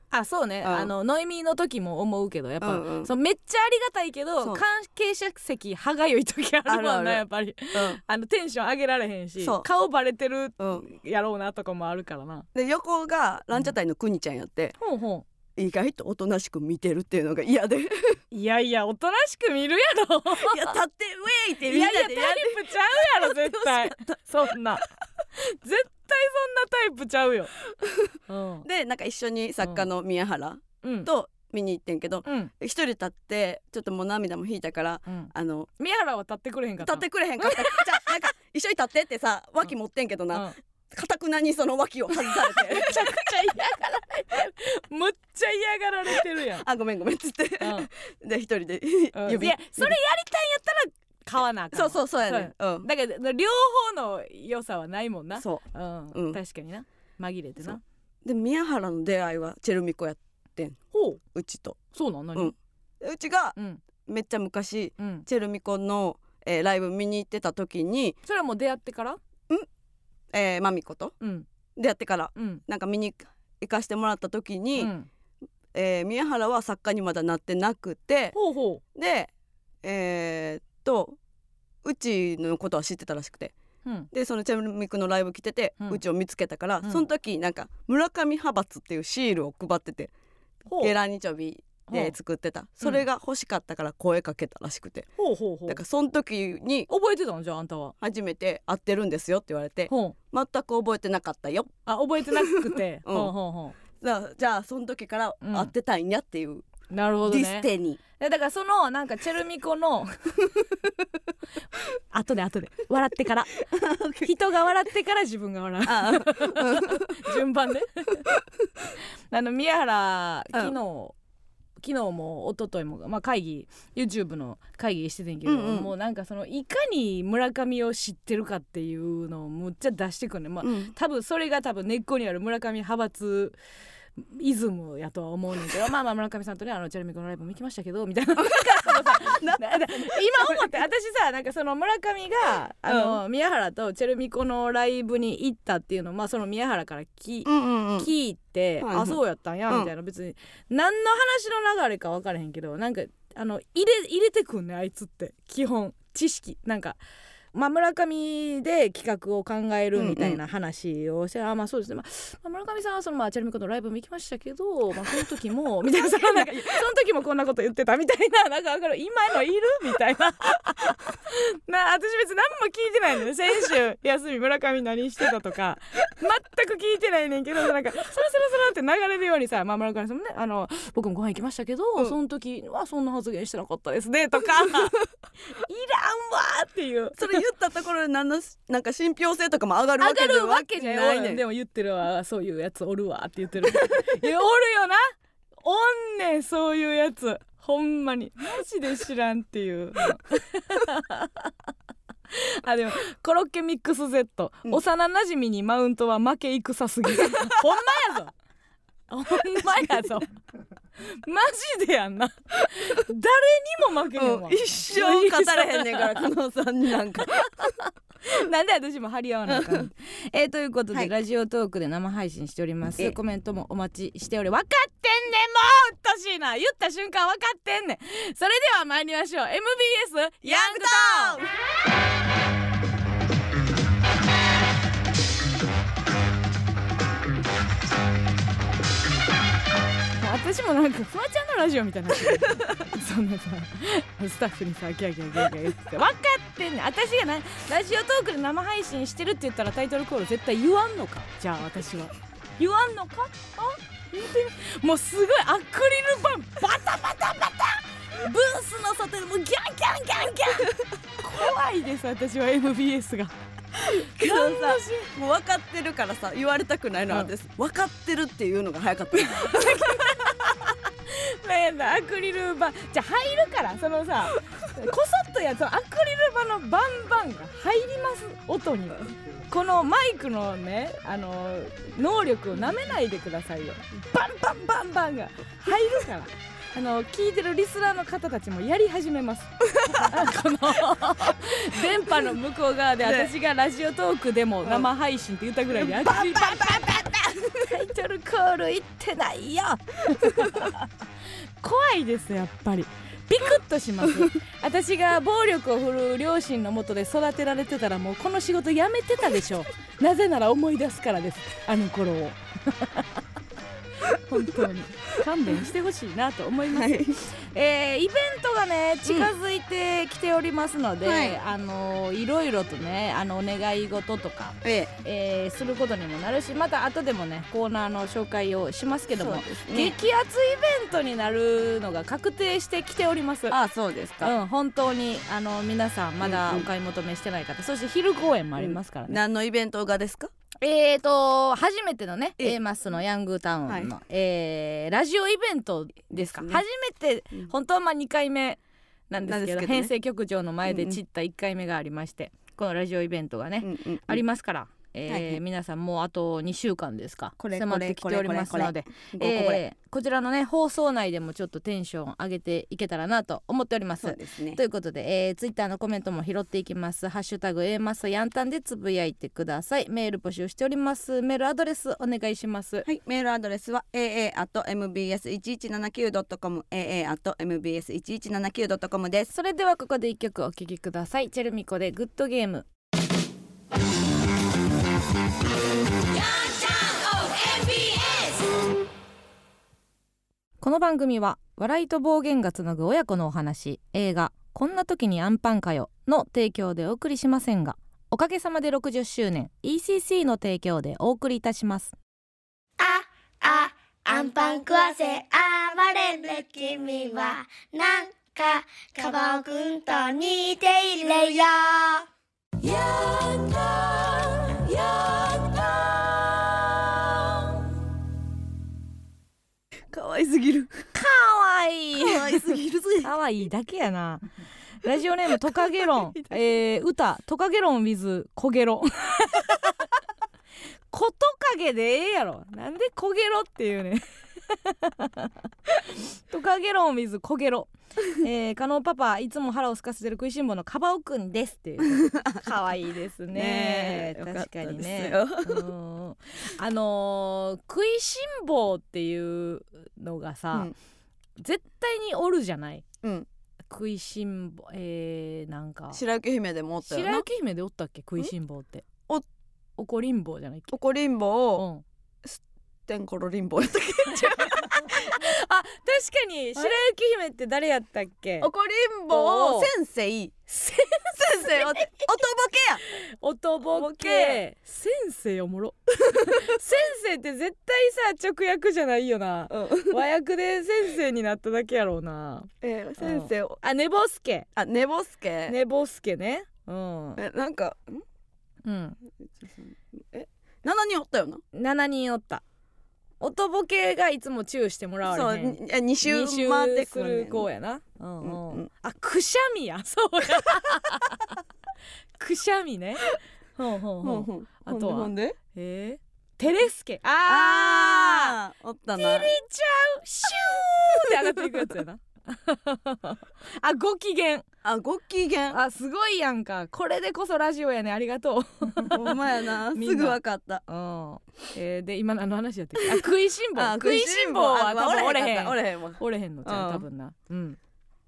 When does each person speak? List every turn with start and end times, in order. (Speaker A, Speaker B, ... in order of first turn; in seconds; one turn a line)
Speaker A: 0.1-12.5
Speaker B: 0.6-0.9
Speaker B: 2.6-3.1
Speaker B: 6.7-8.0
Speaker B: 9.4-9.7
Speaker B: 10.6-10.9
Speaker B: 12.5-14.8
Speaker A: 14.8-15.3
Speaker B: 15.6-18.2
Speaker A: 18.3-20.8
Speaker B: 20.3-24.2
Speaker A: 21.6-27.5
Speaker B: 27.8-28.1
Speaker A: 28.3-28.6
Speaker B: 28.6-35.7
Speaker A: 30.8-31.1
Speaker A: 32.2-32.5
Speaker A: 35.1-38.2
Speaker B: 36.8-43.3
Speaker A: 42.1-46.7
Speaker B: 46.6-50.0
Speaker A: 47.6-47.9
Speaker A: 49.1-57.8
Speaker B: 51.7-52.9
Speaker B: 55.4-56.4
Speaker B: 58.2-60.8
Speaker A: 60.9-61.2
Speaker B: 61.3-61.8
Speaker A: 61.9-62.5
Speaker B: 62.4-68.2
Speaker A: 63.6-63.8
Speaker A: 65.0-65.3
Speaker A: 68.2-69.2
Speaker B: 70.3-71.1
Speaker A: 71.2-71.5
Speaker B: 71.8-74.9
Speaker A: 72.4-72.6
Speaker A: 74.8-75.1
Speaker B: 75.7-78.4
Speaker A: 78.3-78.8
Speaker B: 79.0-79.3
Speaker B: 79.8-81.2
Speaker B: 81.8-83.5
Speaker B: 84.1-90.1
Speaker A: 90.7-91.0
Speaker B: 90.8-95.1
Speaker A: 91.9-92.2
Speaker A: 95.2-95.8
Speaker B: 95.7-96.9
Speaker A: 96.9-98.0
Speaker B: 98.0-101.7
Speaker A: 99.9-100.2
Speaker A: 101.9-103.8
Speaker B: 102.3-103.3
Speaker B: 104.0-106.7
Speaker A: 105.4-105.7
Speaker A: 106.9-110.6
Speaker B: 107.3-108.0
Speaker A: 112.1-118.3
Speaker B: 113.7-114.3
Speaker B: 115.9-117.2
Speaker A: 119.3-121.2
Speaker A: 121.8-133.6
Speaker B: 125.5-125.9
Speaker B: 130.6-130.9
Speaker A: 134.2-157.0
Speaker B: 138.4-140.8
Speaker B: 142.8-143.2
Speaker B: 147.4-148.1
Speaker B: 148.8-149.9
Speaker A: 157.5-184.9
Speaker B: 159.9-160.4
Speaker B: 166.2-166.8
Speaker A: 185.5-187.4
Speaker B: 187.2-191.4
Speaker A: 190.0-201.5
Speaker A: 202.3-208.3
Speaker A: 209.1-210.3
Speaker A: 211.0-216.3
Speaker B: 214.2-217.7
Speaker A: 217.2-231.4
Speaker B: 219.5-219.9
Speaker B: 230.4-231.5
Speaker A: 240.2-263.3
Speaker B: 263.8-270.1
Speaker A: 264.2-265.1
Speaker A: 269.1-300.9
Speaker B: 289.8-290.2
Speaker B: 293.0-293.3
Speaker B: 295.8-297.7
Speaker A: 301.6-313.2
Speaker A: 314.2-333.6
Speaker B: 316.7-317.2
Speaker B: 321.0-321.4
Speaker B: 324.6-324.9
Speaker B: 329.2-329.9
Speaker B: 333.5-334.4
Speaker A: 334.2-339.2
Speaker B: 336.2-336.7
Speaker B: 338.6-340.3
Speaker A: 340.6-372.9
Speaker B: 343.7-343.9
Speaker B: 346.1-346.6
Speaker B: 349.2-349.9
Speaker B: 350.7-351.0
Speaker B: 353.6-354.2
Speaker B: 355.1-355.4
Speaker B: 357.4-359.6
Speaker B: 364.0-364.6
Speaker B: 372.8-379.3
Speaker A: 379.3-382.7
Speaker C: 385.9-388.6
Speaker A: 390.6-401.9
Speaker C: 402.8-412.1
Speaker C: 412.6-413.9
Speaker C: 414.5-415.7
Speaker B: 419.9-420.9
Speaker A: 420.9-424.3
Speaker B: 422.0-423.1
Speaker A: 424.8-430.0
Speaker B: 425.9-426.3
Speaker A: 430.9-450.7
Speaker B: 441.8-442.4
Speaker B: 443.3-445.7
Speaker A: 451.4-452.9
Speaker A: 453.7-456.0
Speaker B: 455.9-457.2
Speaker A: 456.9-458.9
Speaker A: 459.8-460.7
Speaker B: 460.7-461.7
Speaker A: 461.6-461.8
Speaker B: 462.2-465.2
Speaker A: 464.4-468.5
Speaker B: 468.4-470.3
Speaker A: 469.1-469.7
Speaker A: 470.5-472.1
Speaker B: 471.1-472.8
Speaker A: 472.9-484.5
Speaker B: 473.7-474.4
Speaker B: 476.1-476.4
Speaker B: 479.5-480.0
Speaker B: 482.6-483.6
Speaker B: 484.6-485.6
Speaker A: 485.5-487.2
Speaker B: 487.2-488.0
Speaker A: 488.6-489.0
Speaker B: 489.4-491.4
Speaker A: 491.5-492.4
Speaker A: 493.2-501.4
Speaker B: 495.1-497.5
Speaker B: 498.2-498.7
Speaker A: 502.2-508.4
Speaker B: 504.0-505.4
Speaker B: 507.3-509.4
Speaker A: 508.9-514.5
Speaker B: 511.1-511.4
Speaker B: 514.6-515.6
Speaker A: 515.5-527.6
Speaker B: 518.9-520.6
Speaker B: 523.5-526.8